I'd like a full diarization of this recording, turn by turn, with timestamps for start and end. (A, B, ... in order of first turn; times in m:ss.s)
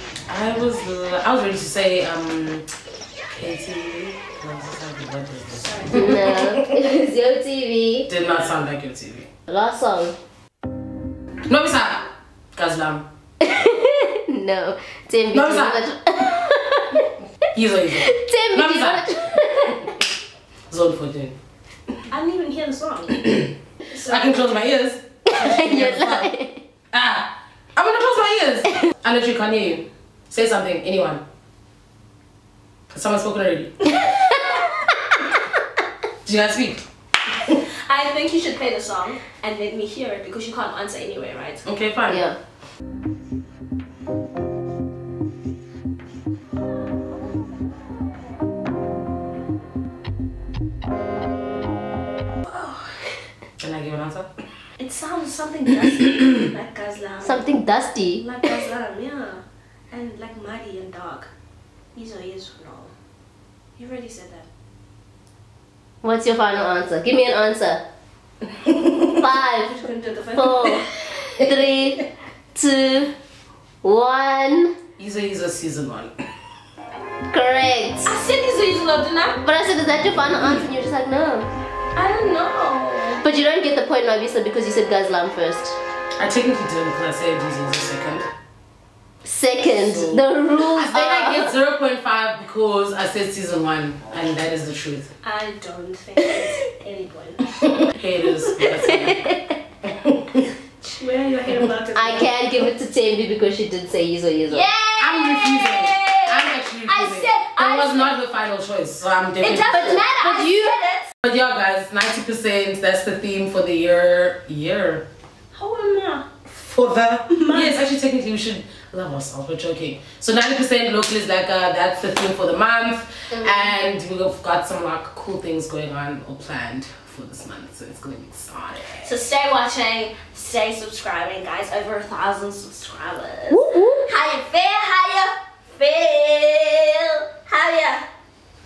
0:00.3-0:02.7 A
0:03.3-0:06.8 A
0:05.6-0:06.0 B
0:05.9-0:08.1 C
0:08.1-0:09.3 A
0:09.5-0:10.1 C
0:11.5-0:13.0 A
0:13.4-0:17.1 C
0:15.3-0:15.8 A
0:17.5-0:19.4 A
0:18.0-0:20.0 C
0:20.7-0:21.4 A
0:22.1-0:23.2 B
0:23.1-0:23.5 A
0:23.9-0:24.6 B
0:24.0-0:26.3 A
0:25.2-0:26.6 C
0:26.9-0:31.2 A
0:32.9-0:33.7 A
0:33.9-0:35.2 C
0:36.2-0:36.8 A
0:37.5-0:41.6 B
0:41.6-0:42.2 A
0:42.1-0:42.4 C
0:52.5-0:53.0 B
0:53.6-0:54.4 A
0:54.8-0:57.5 B
0:57.2-0:58.2 C
0:58.2-1:01.3 B
1:01.9-1:02.9 B
1:03.8-1:04.5 B
1:06.0-1:07.8 C
1:09.1-1:09.8 C
1:09.6-1:10.9 B
1:10.3-1:13.1 C
1:13.8-1:14.7 C
1:15.0-1:16.2 A
1:17.3-1:18.1 C
1:18.0-1:19.4 B
1:19.4-1:21.5 C
1:21.9-1:23.2 B
1:23.2-1:25.8 C
1:26.2-1:28.3 A
1:29.2-1:31.5 C
1:29.6-1:35.1 A
1:35.2-1:37.4 B
1:37.8-1:39.3 A
1:38.6-1:39.6 C
1:39.8-1:40.5 A
1:40.8-1:42.5 B
1:41.9-1:44.7 C
1:44.5-1:48.2 B
1:45.0-1:50.1 A
1:49.4-1:51.1 B
1:49.6-1:50.9 C
1:51.2-1:55.0 A
1:55.5-1:56.3 B
1:56.5-2:09.2 A
1:57.3-1:57.8 B
2:09.0-2:18.0 B
2:13.5-2:14.0 C